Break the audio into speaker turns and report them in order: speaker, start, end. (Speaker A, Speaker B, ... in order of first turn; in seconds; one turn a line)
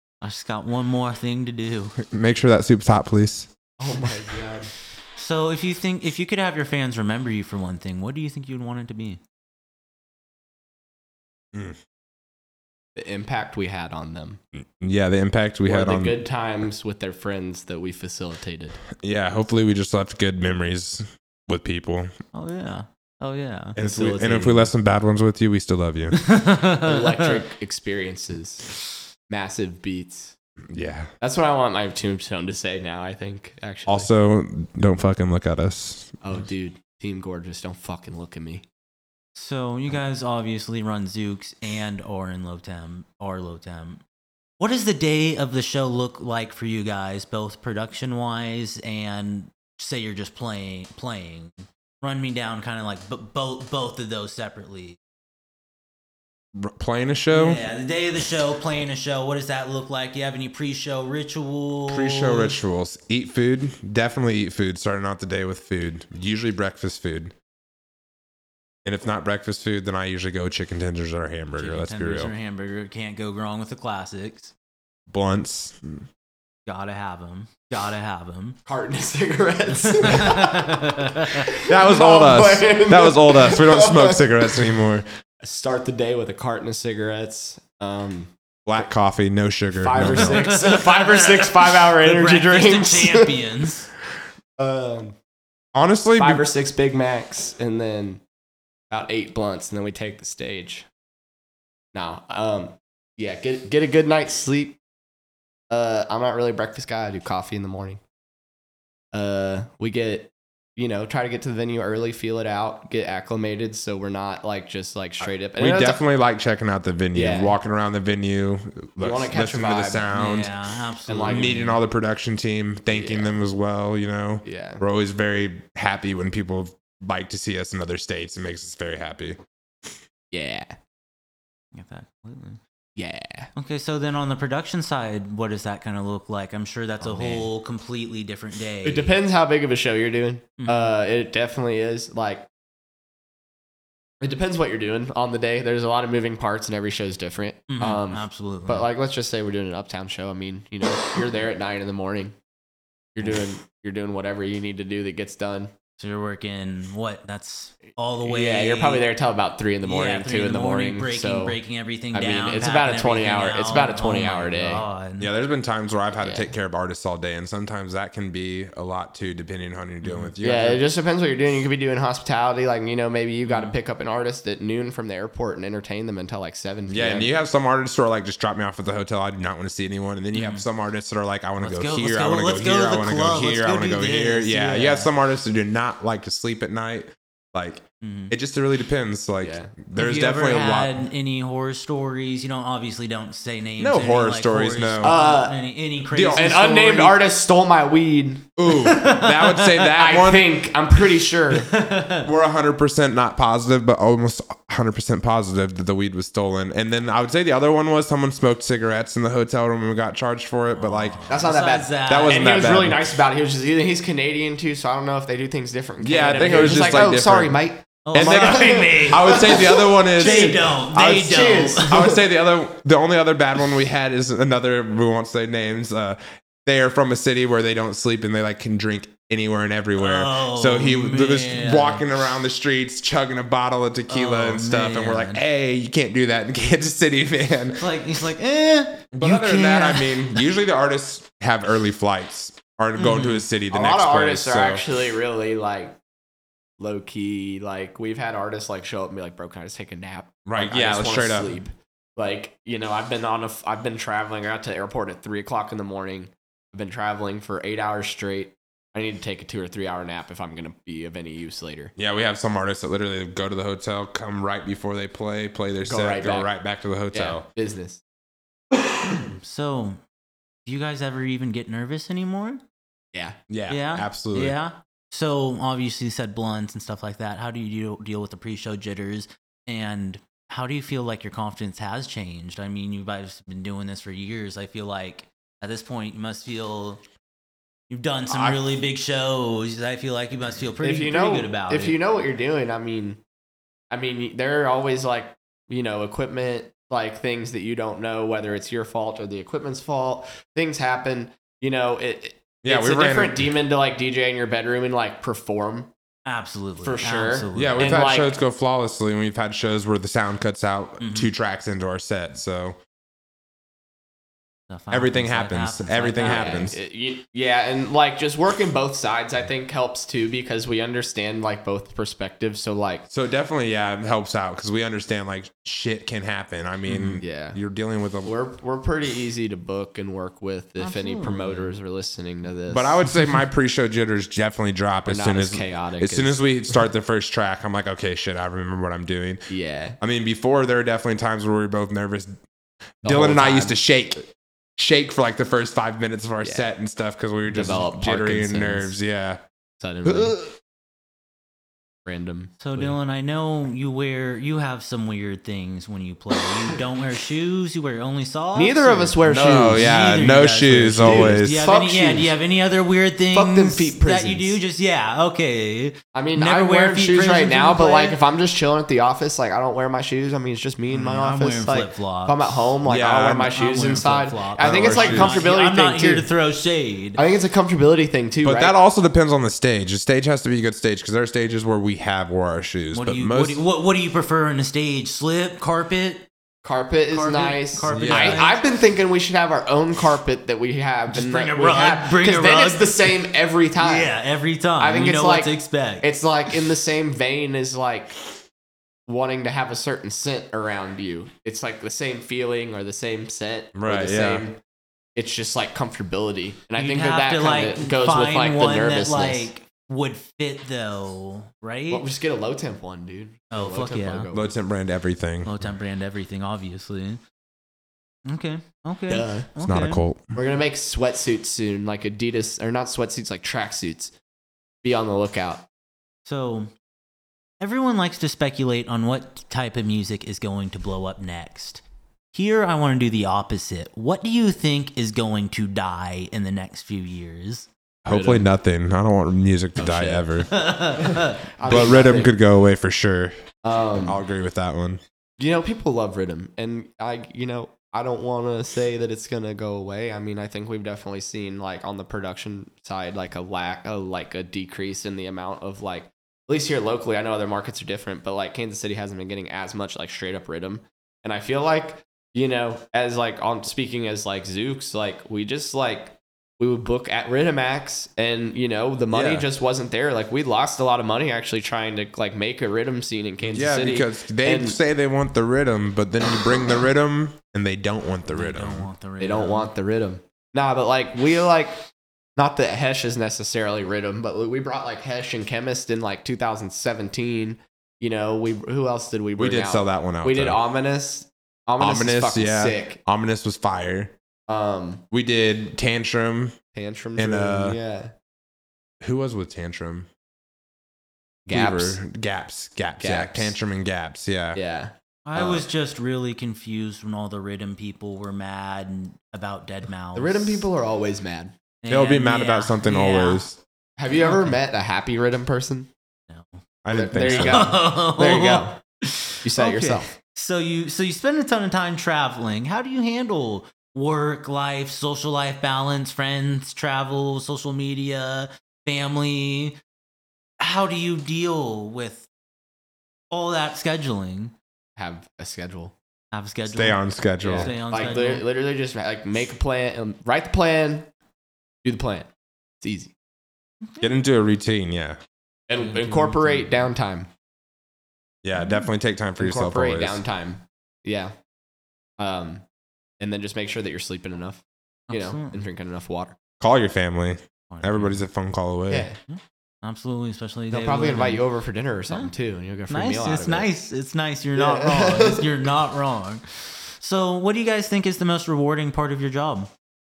Speaker A: 0.2-1.9
Speaker B: 2.0-3.5
Speaker C: 3.8-4.7
Speaker A: 5.2-9.2
Speaker B: 11.5-11.8
Speaker C: 12.9-14.4
Speaker B: 14.6-16.2
Speaker C: 15.7-18.8
Speaker B: 19.0-22.1
Speaker A: 22.3-23.8
Speaker B: 23.8-26.2
Speaker C: 23.8-24.7
Speaker A: 26.1-27.4
Speaker C: 26.8-28.7
Speaker C: 29.3-30.4
Speaker B: 30.7-31.1
Speaker C: 31.2-34.1
Speaker B: 33.9-36.1
Speaker C: 36.2-38.6
Speaker A: 39.3-44.0
Speaker A: 44.6-55.0
Speaker B: 56.5-57.6
Speaker A: 57.3-62.5
Speaker B: 61.9-67.3
Speaker B: 68.8-72.3
Speaker A: 71.5-74.5
Speaker B: 75.1-76.1
Speaker A: 76.7-78.6
Speaker C: 78.7-84.7
Speaker A: 79.8-81.5
Speaker B: 81.6-85.0
Speaker C: 85.4-88.3
Speaker B: 88.7-90.5
Speaker C: 89.8-93.4
Speaker A: 90.0-93.9
Speaker C: 94.6-95.2
Speaker B: 95.7-96.4
Speaker C: 96.2-98.2
Speaker C: 98.9-100.9
Speaker C: 101.9-104.8
Speaker C: 105.7-108.0
Speaker C: 109.1-116.0
Speaker B: 115.6-120.5
Speaker C: 117.1-117.5
Speaker C: 119.0-120.1
Speaker A: 120.1-121.8
Speaker C: 121.1-121.5
Speaker B: 121.3-129.9
Speaker C: 122.9-123.4
Speaker C: 124.4-124.8
Speaker C: 130.3-130.8
Speaker A: 131.7-132.6
Speaker C: 133.0-133.5
Speaker A: 133.5-139.2
Speaker C: 137.0-137.5
Speaker C: 138.8-142.5
Speaker A: 140.6-140.9
Speaker C: 144.2-152.3
Speaker A: 147.7-148.9
Speaker C: 153.1-155.7
Speaker A: 156.0-159.0
Speaker C: 158.2-161.6
Speaker A: 159.8-165.3
Speaker C: 162.1-164.8
Speaker B: 165.2-170.8
Speaker C: 166.2-166.5
Speaker A: 170.0-170.3
Speaker C: 170.4-177.3
Speaker A: 173.4-173.8
Speaker B: 176.9-191.0
Speaker A: 180.3-180.6
Speaker A: 181.6-185.1
Speaker A: 188.0-188.3
Speaker C: 189.4-189.7
Speaker A: 189.9-197.2
Speaker B: 193.8-195.2
Speaker C: 195.0-195.6
Speaker B: 196.1-196.6
Speaker C: 196.3-198.5
Speaker B: 198.6-200.6
Speaker A: 198.7-199.7
Speaker C: 199.9-201.7
Speaker A: 201.5-202.3
Speaker B: 202.2-211.2
Speaker A: 210.7-212.6
Speaker C: 211.3-222.2
Speaker B: 212.1-213.2
Speaker B: 216.0-217.6
Speaker A: 216.5-216.9
Speaker A: 218.1-219.6
Speaker B: 218.1-220.6
Speaker A: 220.2-222.0
Speaker B: 221.8-237.8
Speaker A: 230.0-232.1
Speaker A: 234.1-235.4
Speaker A: 237.8-240.4
Speaker B: 239.1-244.8
Speaker A: 243.0-243.4
Speaker C: 243.7-246.0
Speaker C: 246.8-261.9
Speaker B: 250.4-251.6
Speaker B: 262.0-267.4
Speaker C: 265.9-266.5
Speaker C: 267.1-268.0
Speaker A: 269.2-270.0
Speaker A: 270.6-272.6
Speaker B: 273.5-274.6
Speaker A: 273.7-287.0
Speaker A: 287.9-291.9
Speaker B: 288.3-288.6
Speaker C: 290.8-293.2
Speaker C: 293.9-305.9
Speaker B: 302.6-303.5
Speaker A: 306.2-308.0
Speaker C: 306.8-308.3
Speaker B: 307.5-312.8
Speaker A: 311.0-311.3
Speaker A: 314.7-316.7
Speaker B: 314.9-316.8
Speaker C: 316.2-323.0
Speaker B: 323.1-328.3
Speaker A: 326.9-327.2
Speaker C: 327.2-327.6
Speaker C: 328.2-333.0
Speaker A: 330.8-331.7
Speaker B: 332.7-339.4
Speaker C: 335.1-336.4
Speaker C: 339.5-340.0
Speaker B: 340.0-342.4
Speaker B: 343.0-349.4
Speaker C: 343.0-343.8
Speaker C: 346.4-346.7
Speaker C: 347.4-348.9
Speaker C: 349.8-350.4
Speaker B: 350.0-350.5
Speaker C: 352.1-352.9
Speaker A: 352.6-368.2
Speaker C: 358.5-359.9
Speaker B: 359.3-361.6
Speaker C: 361.0-362.3
Speaker C: 363.3-364.6
Speaker C: 366.1-376.3
Speaker A: 370.9-372.5
Speaker B: 372.8-373.5
Speaker A: 373.5-377.2
Speaker B: 374.6-375.4
Speaker C: 377.1-378.7
Speaker B: 378.4-383.6
Speaker A: 382.9-386.2
Speaker C: 386.6-394.1
Speaker A: 387.1-388.6
Speaker B: 387.9-388.5
Speaker A: 391.1-393.1
Speaker A: 393.8-396.5
Speaker C: 394.8-398.2
Speaker C: 399.1-404.6
Speaker B: 403.7-404.4
Speaker C: 405.1-409.5
Speaker A: 406.8-412.1
Speaker C: 411.9-414.5
Speaker A: 413.5-414.3
Speaker B: 414.3-415.5
Speaker A: 415.4-417.2
Speaker A: 418.3-420.0
Speaker C: 419.1-419.5
Speaker B: 419.6-420.3
Speaker C: 420.3-424.1
Speaker C: 424.8-425.6
Speaker A: 426.2-426.7
Speaker A: 427.6-437.7
Speaker C: 438.1-438.4
Speaker B: 438.1-440.5
Speaker C: 439.8-440.3
Speaker A: 440.5-441.4
Speaker C: 441.0-442.4
Speaker B: 441.6-443.3
Speaker C: 443.6-444.2
Speaker B: 444.0-445.0
Speaker C: 445.4-474.8
Speaker B: 469.1-469.5
Speaker B: 473.5-478.9
Speaker A: 478.3-479.7
Speaker C: 479.2-481.8
Speaker C: 482.4-493.0
Speaker B: 489.4-490.6
Speaker B: 491.8-494.1
Speaker C: 494.5-495.0
Speaker B: 495.1-496.6
Speaker C: 496.7-498.1
Speaker B: 497.2-497.8
Speaker B: 499.0-500.1
Speaker B: 501.5-504.6
Speaker C: 501.5-502.0
Speaker C: 503.0-503.5
Speaker C: 504.5-505.7
Speaker A: 505.2-510.7
Speaker C: 510.1-511.5
Speaker A: 511.8-513.4
Speaker B: 511.9-513.6
Speaker C: 514.0-515.9
Speaker A: 514.1-514.5
Speaker A: 516.3-516.6
Speaker B: 516.8-517.7
Speaker C: 516.9-518.8
Speaker A: 517.2-529.8
Speaker C: 519.4-520.1
Speaker A: 530.6-532.3
Speaker A: 533.3-534.5
Speaker C: 535.0-535.9
Speaker A: 536.3-537.0
Speaker B: 536.7-537.7
Speaker C: 537.4-541.1
Speaker A: 537.6-538.4
Speaker C: 541.8-542.3
Speaker C: 542.8-543.1
Speaker A: 543.9-544.1
Speaker B: 544.0-545.2
Speaker C: 545.7-547.3
Speaker A: 545.8-546.8
Speaker B: 548.4-550.2
Speaker A: 548.6-548.9
Speaker C: 549.4-551.3
Speaker C: 552.2-552.6
Speaker C: 553.2-556.4
Speaker A: 555.1-555.6
Speaker B: 556.6-559.1
Speaker A: 557.7-558.2
Speaker C: 558.9-559.2
Speaker A: 559.3-561.4
Speaker C: 560.7-563.7
Speaker A: 562.9-569.7
Speaker C: 564.6-565.6